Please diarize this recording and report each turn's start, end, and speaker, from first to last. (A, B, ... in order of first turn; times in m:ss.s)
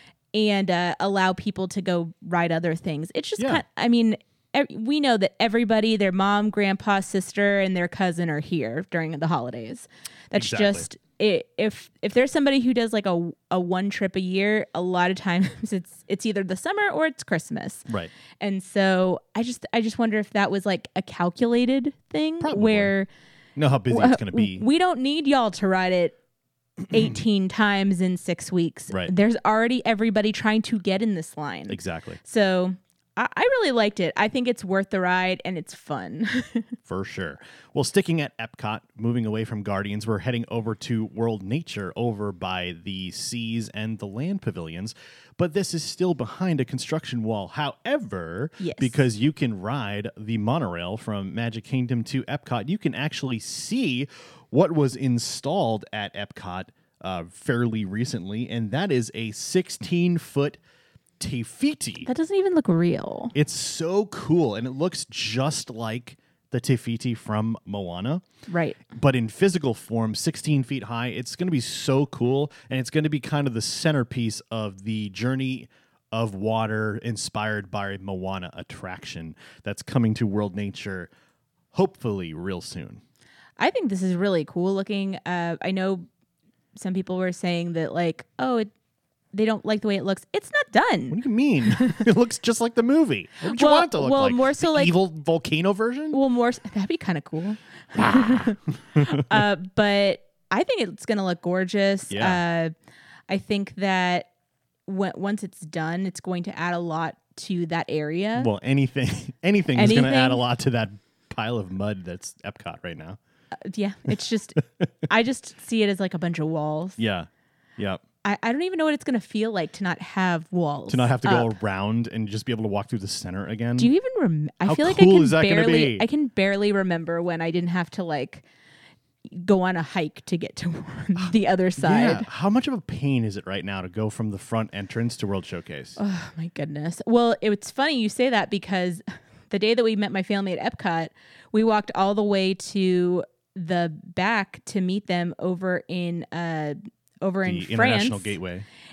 0:00.3-0:17.9 A
0:03.4-0:03.6 B
0:10.4-0:10.9 B
0:18.4-0:23.1 A
0:22.4-0:22.9 B
0:23.6-0:24.6 B
0:23.9-0:26.2 A
0:26.9-0:36.7 A
0:31.7-0:32.2 B
0:36.9-1:00.6 B
0:48.6-0:48.9 A
1:01.2-1:02.1 B
1:02.1-1:03.3 A
1:03.3-1:08.2 B
1:08.5-1:08.8 A
1:08.9-1:21.1 B
1:21.7-1:23.0 B
1:23.6-1:26.1 A
1:26.8-1:28.7 A
1:29.3-1:32.0 A
1:31.1-1:36.2 B
1:33.4-1:34.9 A
1:36.1-1:42.7 A
1:38.0-1:39.2 B
1:42.1-1:42.4 B
1:43.3-1:44.3 A
1:44.9-1:48.5 A
1:48.4-1:53.2 B
1:49.8-1:50.4 A
1:53.6-1:57.0 A
1:57.0-1:58.0 B
1:58.2-2:01.5 A
2:00.9-2:03.9 B
2:03.8-2:08.4 A
2:04.6-2:06.1 B
2:09.3-2:12.2 A
2:11.2-2:16.0 B
2:16.0-2:28.4 A
2:27.4-2:28.6 B